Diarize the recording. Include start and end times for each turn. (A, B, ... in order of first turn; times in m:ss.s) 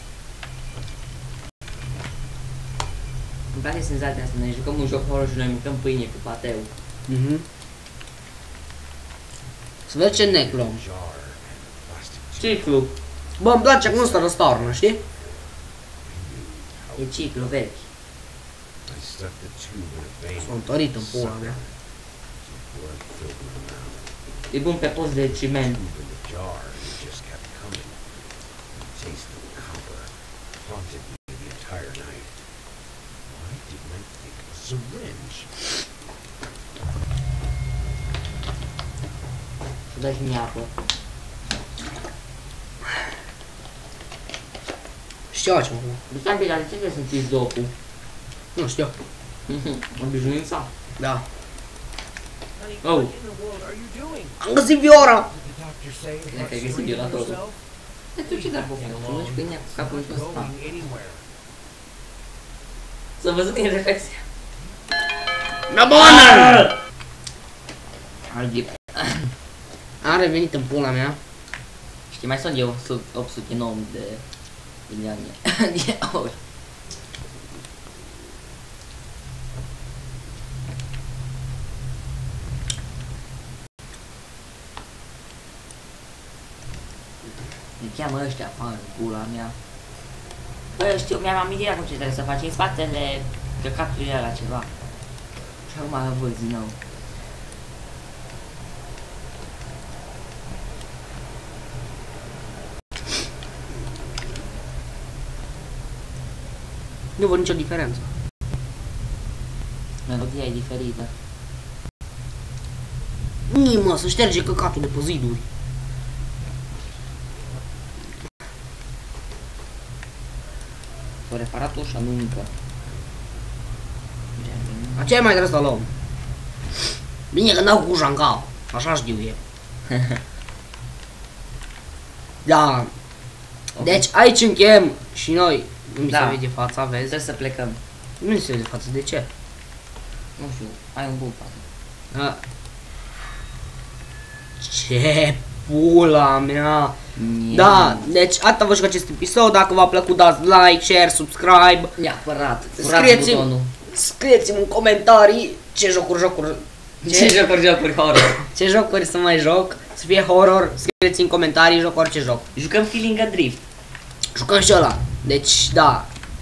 0:03.5-0:06.7 A
0:07.1-0:07.4 B
0:09.9-0:10.8 B
0:11.0-0:12.3 C
0:12.4-0:12.9 A
0:13.4-0:15.0 B
0:17.0-0:17.8 A
0:19.0-0:20.3 C
0:20.4-0:21.6 B
0:22.7-0:24.0 C
0:24.5-0:25.8 A
0:26.1-0:27.9 C
0:29.0-0:30.1 C
0:30.7-0:32.3 C
0:33.4-0:35.5 C
0:39.9-0:40.7 A
0:45.3-0:46.0 B
0:46.1-0:47.7 A
0:48.6-0:48.9 B
0:49.5-0:50.7 A
0:51.0-0:51.2 B
0:52.8-0:53.1 A
0:53.3-0:54.2 C
0:54.4-0:55.3 B
0:55.6-0:56.3 C
0:56.3-0:57.4 A
0:58.2-1:00.6 A
1:00.7-1:01.2 C
1:03.2-1:04.2 A
1:05.7-1:06.7 B
1:06.0-1:06.8 A
1:08.3-1:09.3 A
1:10.0-1:11.2 B
1:12.1-1:14.2 A
1:14.9-1:16.4 A
1:27.8-1:29.6 A
1:30.8-1:34.7 A
1:35.6-1:36.8 A
1:47.2-1:48.1 B
1:50.0-1:51.1 A
1:53.5-1:55.4 B
2:01.3-2:02.5 A
2:04.4-2:05.1 A
2:05.0-2:05.9 B
2:07.3-2:09.4 B
2:12.4-2:12.9 B
2:13.8-2:17.2 B
2:16.1-2:16.4 A
2:17.0-2:17.8 A
2:18.2-2:19.3 B
2:20.4-2:21.6 A
2:22.1-2:22.4 B
2:24.6-2:27.0 B
2:27.2-2:28.1 A
2:27.5-2:31.9 B
2:32.0-2:33.7 A
2:32.8-2:37.3 B
2:37.0-2:38.4 A
2:38.4-2:42.4 B
2:42.5-2:43.6 A
2:44.3-2:46.1 B